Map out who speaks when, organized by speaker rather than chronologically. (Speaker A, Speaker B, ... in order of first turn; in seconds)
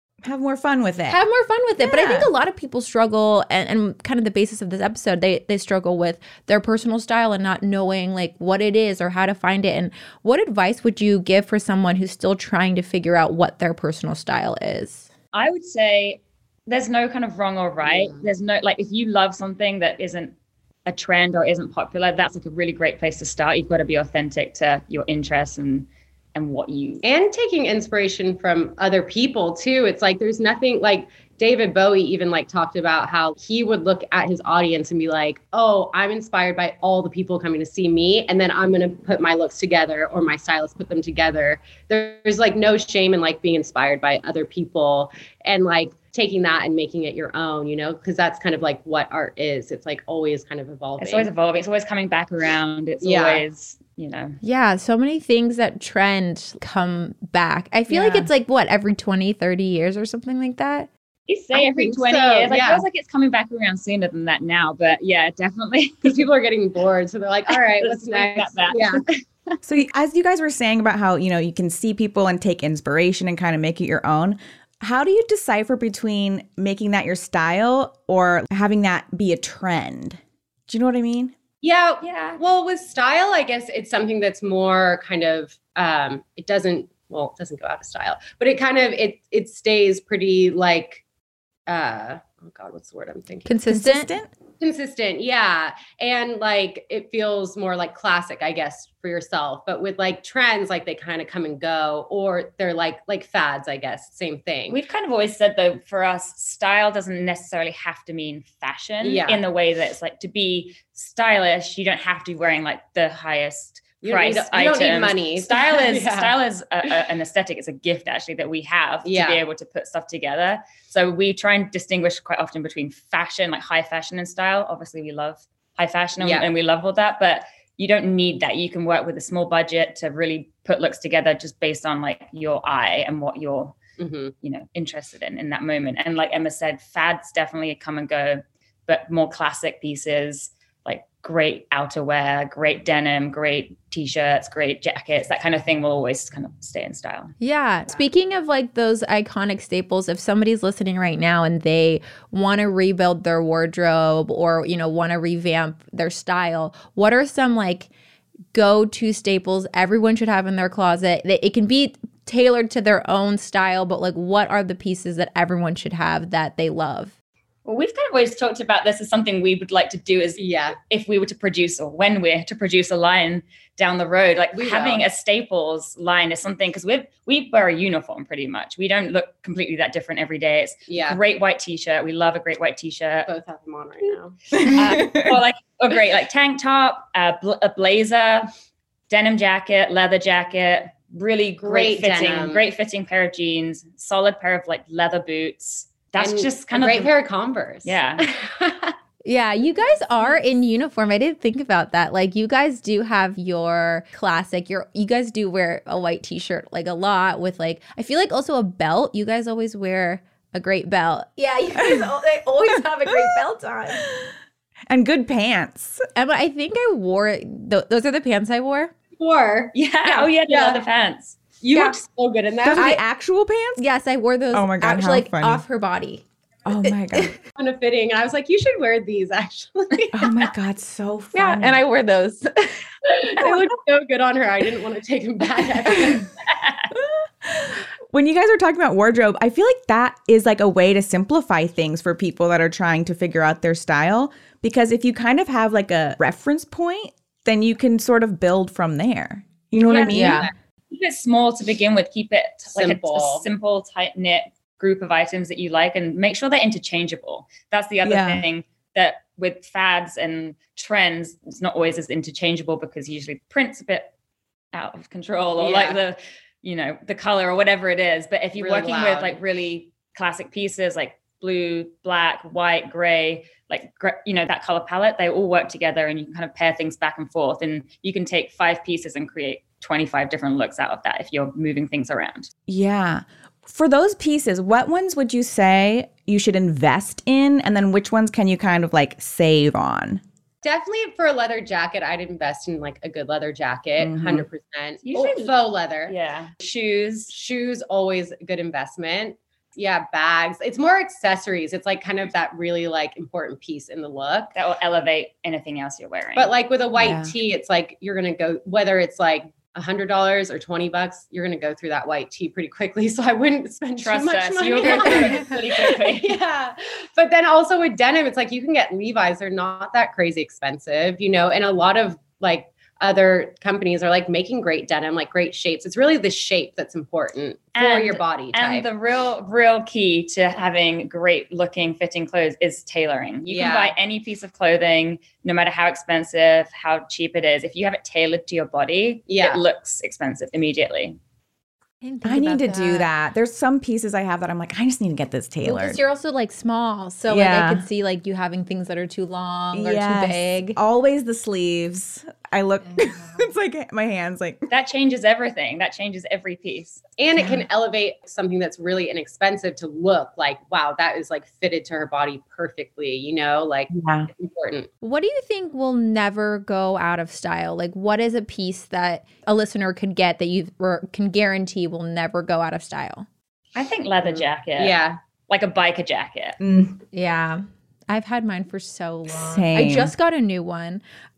Speaker A: 0.2-1.2, 1.8-2.3, 57.9-58.2, 69.6-81.3, 93.7-94.3, 184.5-185.4, 211.8-212.1, 212.7-213.4, 214.0-214.3, 214.9-216.0, 222.6-223.8, 224.5-225.6, 226.7-227.3, 230.1-231.8, 236.9-250.5, 258.0-258.4, 282.7-290.2, 294.0-294.4, 307.0-307.3, 342.2-346.0, 347.3-347.8, 349.7-354.6, 357.4-357.6, 363.9-364.3, 376.6-377.0, 379.3-380.1
Speaker B: 1.1-15.1, 54.4-60.9, 93.4-94.1, 147.4-157.9, 158.5-167.1, 199.2-214.1, 216.2-218.9, 222.7-223.0, 223.8-226.2, 226.8-227.3, 231.3-233.5, 250.1-250.5, 342.0-343.1, 345.6-350.8, 352.9-353.4, 365.0-373.3, 377.1-381.0
Speaker C: 15.3-20.3, 20.9-27.0, 51.0-54.4, 61.3-66.3, 67.5-69.0, 82.0-82.4, 104.7-133.8, 134.4-147.3, 167.6-183.3, 184.6-188.5, 189.1-197.1, 197.8-198.2, 219.7-221.4, 236.5-236.8, 249.9-250.3, 250.9-264.1, 264.7-282.5, 295.0-297.3, 304.5-306.5, 314.0-316.4, 327.8-341.2, 354.7-357.0, 373.7-375.0, 375.5-376.6
Speaker D: 17.8-18.2, 27.0-51.3, 53.0-53.4, 61.5-62.8, 66.0-69.0, 81.6-91.0, 91.7-93.5, 94.6-104.8, 109.0-109.4, 114.0-116.3, 119.0-119.4, 126.2-126.5, 134.0-134.3, 170.4-170.8, 174.5-175.1, 180.9-181.2, 183.2-184.3, 191.6-192.7, 196.2-198.9, 219.2-220.8, 221.6-223.0, 227.6-230.5, 233.2-236.3, 249.9-250.5, 252.7-253.4, 265.6-266.0, 268.6-269.4, 290.6-296.1, 297.3-304.5, 306.4-328.9, 333.5-333.9, 339.3-339.6, 357.2-364.9, 374.2-375.2